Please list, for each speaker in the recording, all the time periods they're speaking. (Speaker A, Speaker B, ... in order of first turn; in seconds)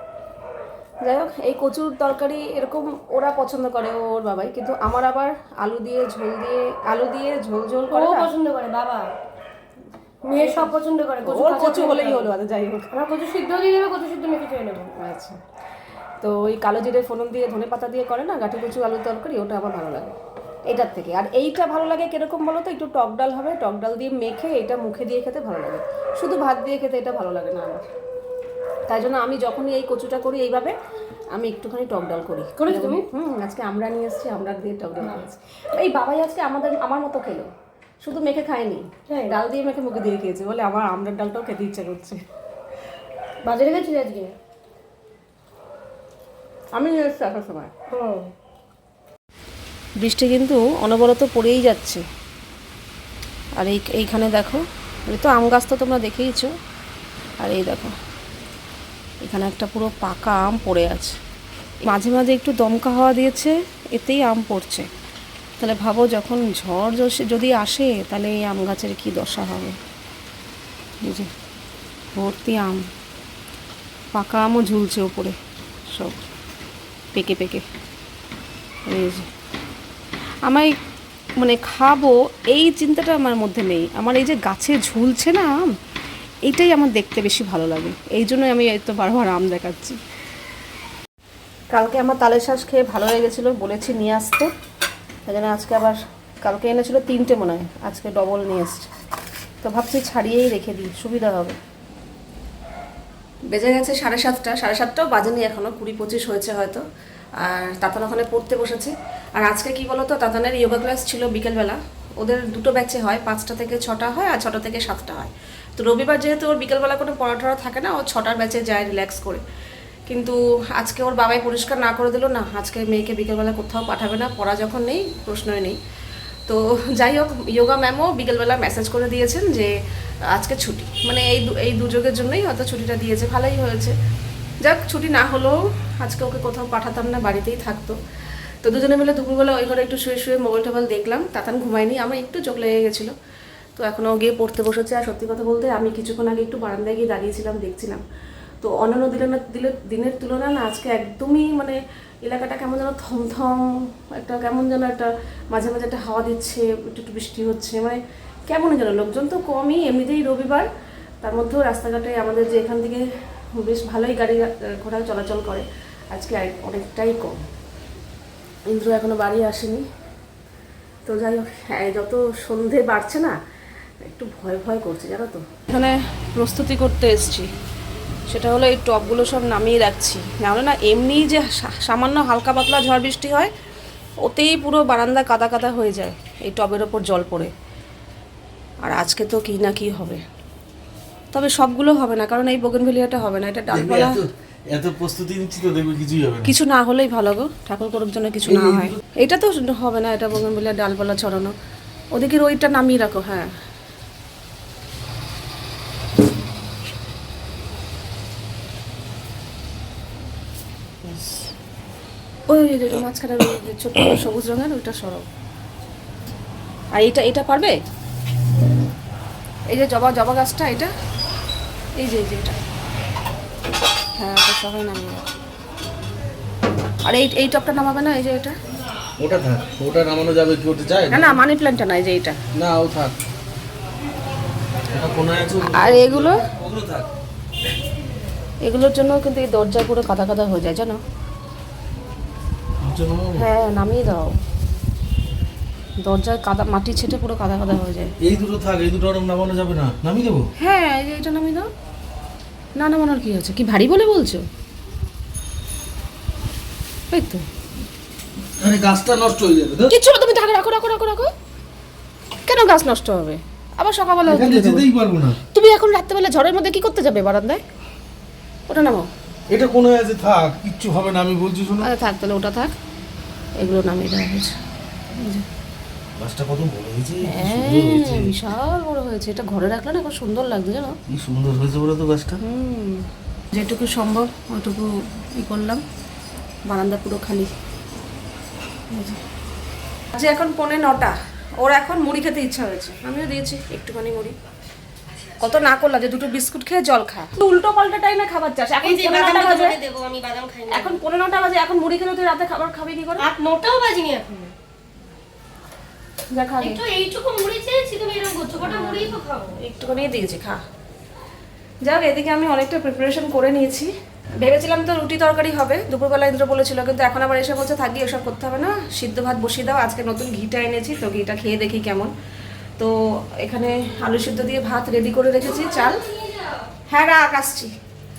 Speaker A: 1.0-8.3, 10.4-10.7, 11.2-12.9, 14.9-15.4, 16.2-20.2, 20.7-27.9, 28.9-30.7, 31.3-37.5, 38.0-42.2, 46.7-47.7, 50.0-52.0, 53.6-56.5, 57.4-57.9, 59.2-61.2, 61.9-64.9, 65.6-69.8, 71.0-71.3, 72.1-72.9, 74.1-75.4, 75.9-76.2, 77.1-77.6, 78.9-79.3, 80.5-80.7, 81.4-85.7, 86.4-90.0, 91.7-94.5, 95.3-98.9, 99.6-101.6, 103.5-106.8, 107.4-119.4, 120.1-125.8, 126.5-129.7, 130.3-133.9, 134.6-138.0, 138.6-143.1, 143.8-148.0, 148.6-160.7, 161.2-163.0, 163.6-167.4, 168.7-169.8, 171.1-173.4, 174.0-177.5, 178.3-183.5, 184.2-187.5, 188.8-190.2, 191.3-194.2, 196.4-201.5, 202.1-203.5, 212.5-215.2, 216.9-217.8, 219.7-220.9, 222.0-222.6, 224.2-225.3, 227.0-228.6, 231.1-232.4, 235.7-236.4, 238.6-241.0, 243.3-244.4, 246.0-248.1, 250.6-251.7, 252.8-254.4, 257.1-257.4, 259.9-261.3, 262.4-264.9, 265.5-267.6, 268.7-269.1, 271.8-272.7, 273.6-274.6, 275.1-275.4, 277.2-280.9, 282.4-285.8, 286.7-287.5, 288.9-289.2, 290.1-294.4, 295.4-299.8, 300.7-303.2, 306.3-306.8, 308.6-310.6, 311.8-322.1, 322.8-326.1, 326.9-327.7
Speaker B: 7.9-9.1, 10.2-12.3, 12.9-14.9, 32.6-33.0, 39.1-39.4, 43.4-44.3, 47.9-48.3, 298.8-301.0, 303.2-304.5, 306.6-309.6
Speaker C: 193.7-196.5, 198.5-198.9, 229.2-231.4, 232.5-233.2, 234.9-237.1, 242.8-243.5, 248.2-250.5, 258.6-259.9, 264.3-265.4, 269.5-271.9, 276.2-278.3, 281.1-282.4